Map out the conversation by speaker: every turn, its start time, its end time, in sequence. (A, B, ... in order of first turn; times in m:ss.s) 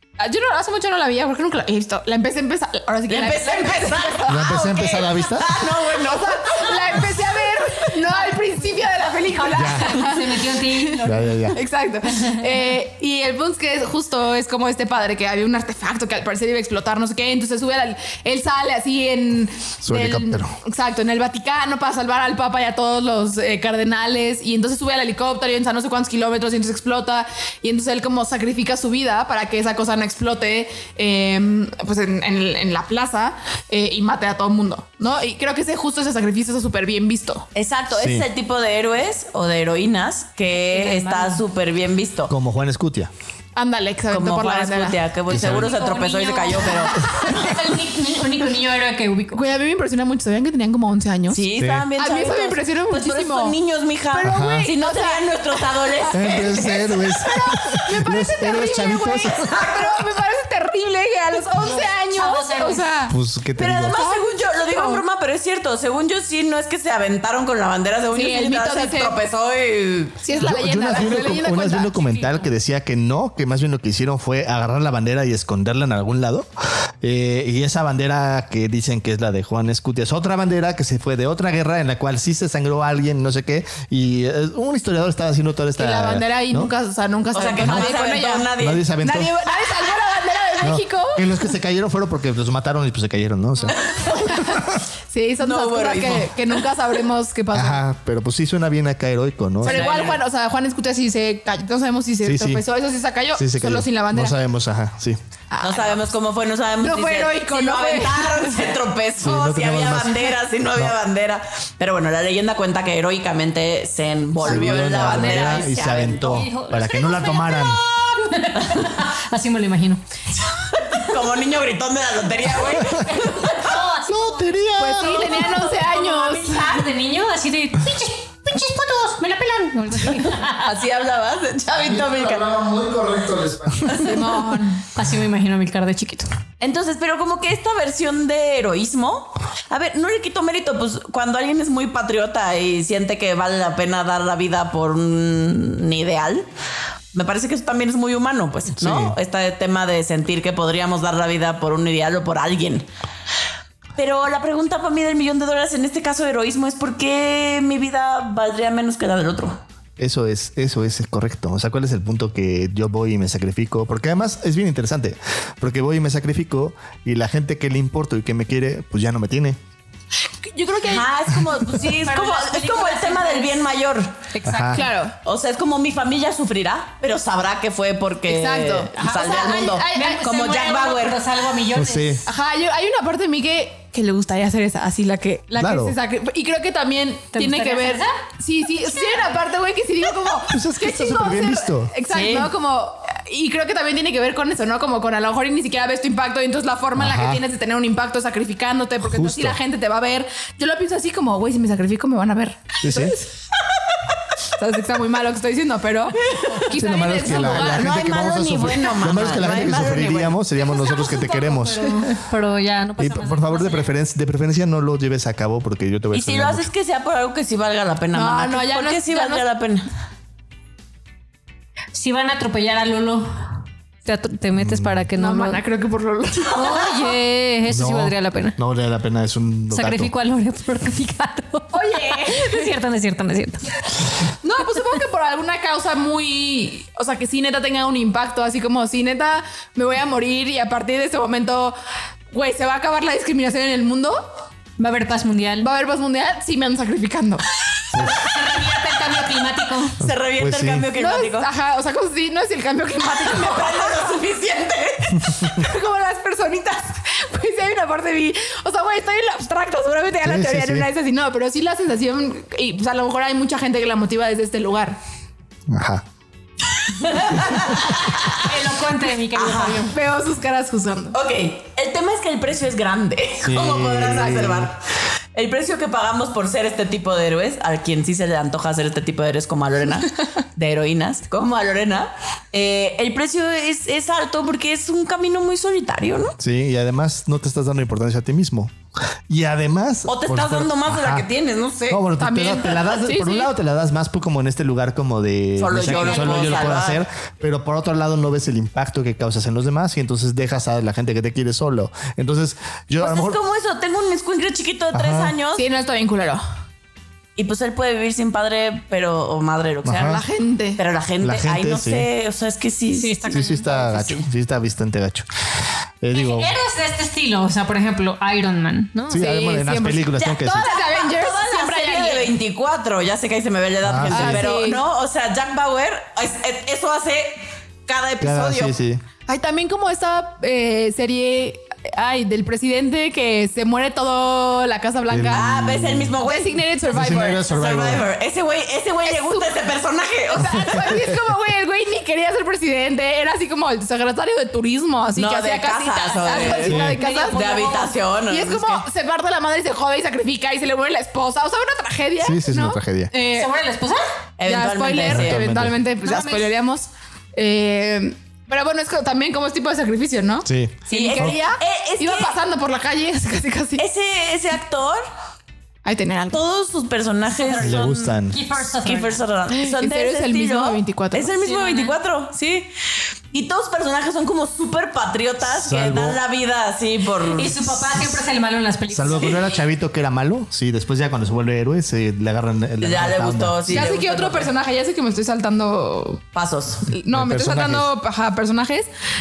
0:00.2-0:04.4 A
0:03.1-0:07.2 B
0:04.3-0:05.5 C
0:05.8-0:37.5 A
0:09.3-0:11.3 D
0:09.5-0:09.9 C
0:11.0-0:11.6 C
0:19.8-0:20.5 C
0:37.5-0:42.3 B
0:38.0-0:38.3 C
0:40.6-0:41.4 D
0:42.3-0:43.1 C
0:43.6-0:45.0 A
0:44.1-0:47.1 B
0:45.3-0:45.7 C
0:45.3-0:49.4 D
0:46.6-0:47.6 A
0:49.3-0:53.6 A
0:51.3-0:56.9 B
0:51.6-0:51.9 C
0:54.1-1:03.1 A
0:54.2-0:54.7 C
0:56.1-0:59.7 C
0:59.5-0:59.9 B
1:01.6-1:02.8 D
1:03.1-1:04.0 C
1:03.6-1:10.2 B
1:03.9-1:05.0 A
1:08.1-1:09.2 A
1:10.2-1:12.1 A
1:10.4-1:16.5 C
1:17.0-1:26.7 C
1:25.8-1:31.4 A
1:27.3-1:28.8 B
1:27.6-1:27.9 C
1:28.6-1:29.3 C
1:30.6-1:33.8 C
1:33.9-1:34.4 B
1:34.3-1:37.8 A
1:35.4-1:36.4 B
1:37.5-1:39.8 C
1:39.6-1:44.3 A
1:39.6-1:40.2 B
1:42.2-1:42.6 C
1:43.4-1:45.2 C
1:45.5-1:46.0 A
1:45.6-1:56.4 B
1:46.8-1:48.8 A
1:49.2-1:50.9 C
1:54.4-1:57.8 C
1:56.2-2:00.0 D
2:00.9-2:03.8 B
2:02.5-2:10.6 D
2:04.1-2:05.3 C
2:04.8-2:06.8 A
2:09.8-2:10.4 A
2:10.4-2:12.5 B
2:11.8-2:14.2 E
2:13.9-2:14.8 A
2:14.9-2:16.3 D
2:16.6-2:26.5 B
2:27.1-2:32.9 B
2:28.8-2:29.2 C
2:34.0-2:39.6 B
2:40.0-2:49.6 C
2:50.4-2:51.1 A
2:50.8-2:54.2 B
2:52.0-2:53.5 D
2:54.3-2:54.9 D
2:54.4-2:54.8 C
2:54.7-2:55.2 A
2:55.2-3:01.2 B
2:58.3-3:00.2 A
2:59.0-3:02.2 D
3:01.7-3:02.2 C
3:02.2-3:23.3 A
3:05.6-3:05.9 C
3:07.3-3:08.1 D
3:08.9-3:09.3 D
3:10.5-3:11.9 C
3:12.1-3:12.5 B
3:17.0-3:17.4 C
3:19.0-3:19.6 C
3:22.8-3:23.2 C
3:24.6-3:27.9 A
3:26.7-3:32.0 C
3:27.3-3:30.4 B
3:30.5-3:33.9 D
3:33.0-3:36.7 C
3:36.1-3:39.9 B
3:38.1-3:39.4 A
3:41.9-3:43.3 D
3:44.0-3:45.6 D
3:44.5-3:45.0 C
3:45.2-3:47.1 A
3:46.5-3:48.6 D
3:47.7-3:50.1 C
3:49.7-3:53.6 D
3:51.7-3:52.7 A
3:54.4-4:01.7 A
4:02.3-4:04.2 A
4:04.8-4:05.7 D
4:05.6-4:07.4 A
4:07.9-4:08.2 C
4:08.0-4:10.0 D
4:10.0-4:11.5 B
4:10.0-4:10.9 C
4:11.0-4:14.2 A
4:13.1-4:15.4 B
4:15.3-4:15.5 C
4:15.5-4:25.0 A
4:20.2-4:20.9 C
4:25.7-4:26.0 C
4:27.0-4:28.3 B
4:28.3-4:30.0 D
4:29.3-4:29.9 B
4:29.9-4:31.2 A
4:31.1-4:34.8 B
4:33.4-4:34.7 C
4:35.3-4:46.3 B
4:46.4-4:48.7 C
4:49.3-4:51.3 C
4:50.1-4:52.0 B
4:51.9-5:03.4 C
4:52.2-4:53.5 A
4:55.6-4:57.0 B
4:55.9-4:56.7 A
5:03.0-5:05.6 B
5:04.9-5:05.3 C
5:05.6-5:06.4 A
5:07.4-5:10.2 B
5:09.8-5:10.2 C
5:10.0-5:10.8 A
5:10.8-5:14.2 B
5:11.2-5:12.1 C
5:12.9-5:13.7 D
5:13.3-5:15.2 C
5:16.0-5:16.5 C
5:16.1-5:19.2 D
5:19.1-5:20.7 C
5:19.1-5:22.3 A
5:20.5-5:28.7 B
5:23.8-5:24.4 C
5:24.0-5:24.8 A
5:28.2-5:29.0 C
5:29.3-5:35.5 A
5:35.1-5:36.1 C
5:35.3-5:41.0 B
5:36.2-5:37.5 A
5:36.9-5:38.0 C
5:39.1-5:39.6 A
5:40.3-5:53.5 A
5:45.1-5:48.8 B
5:46.4-5:47.9 D
5:46.6-5:47.0 C
5:52.2-5:53.1 C
5:53.3-5:54.0 D
5:54.4-5:55.4 B
5:54.4-6:03.8 A
5:55.1-5:55.8 C
5:56.0-5:56.5 D
6:00.4-6:01.4 C
6:00.9-6:02.3 B
6:03.8-6:05.0 B
6:05.8-6:06.4 A
6:06.3-6:08.2 B
6:07.6-6:08.4 C
6:08.3-6:09.2 D
6:08.8-6:12.7 B
6:09.5-6:11.3 A
6:11.4-6:11.9 D
6:13.3-6:18.2 B
6:15.5-6:16.2 C
6:17.3-6:19.5 D
6:18.9-6:23.9 C
6:22.8-6:24.5 B
6:23.7-6:26.2 A
6:26.3-6:26.8 B
6:26.9-6:28.9 A
6:27.1-6:27.9 C